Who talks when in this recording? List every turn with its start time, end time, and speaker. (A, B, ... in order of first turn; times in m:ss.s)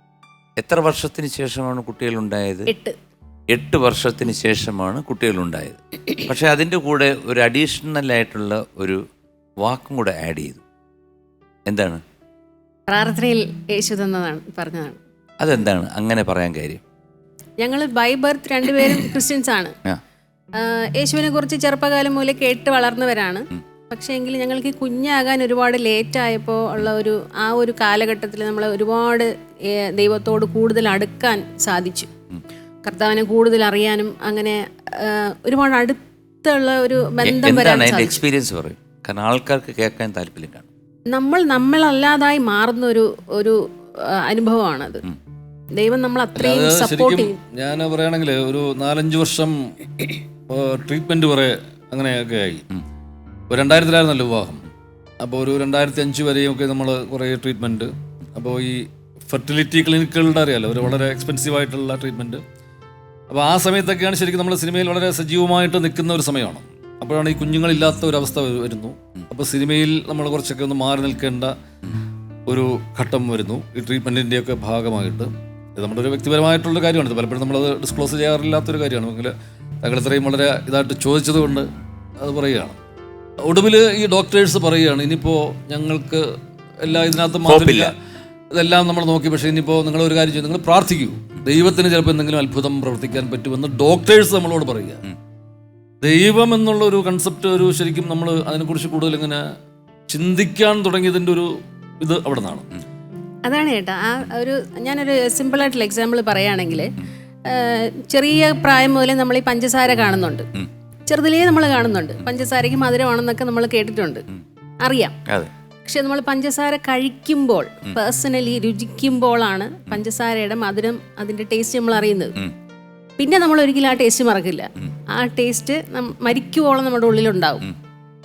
0:00.6-0:02.7 A
0:02.7-0:03.0 B
0:03.5-0:09.0 A
0:09.6-0:10.6 A
0:11.7-0:12.0 A
0:12.9-0:15.0 B
0:15.4-0:16.8 A
0:17.6-0:19.7 B
0:20.6-0:29.3 B
0:29.9-0:32.1 B
0:32.8-0:38.2 B
0:37.2-0:40.7 A
0:41.1-0:45.0 B
0:45.7-0:47.3 B
0:46.4-0:52.6 C
0:53.5-0:54.6 C
0:55.2-1:02.4 C
1:03.3-1:11.5 C
1:12.5-1:21.7 C
1:22.2-1:22.8 C
1:23.4-1:26.3 C
1:26.8-1:27.9 C
1:27.4-1:27.9 A
1:28.5-1:35.0 C
1:36.0-1:39.4 C
1:40.1-1:42.7 C
1:43.4-1:46.9 B
1:47.4-1:50.4 B
1:51.1-1:54.2 B
1:54.8-1:55.2 B
1:55.8-2:02.3 B
2:03.2-2:07.6 B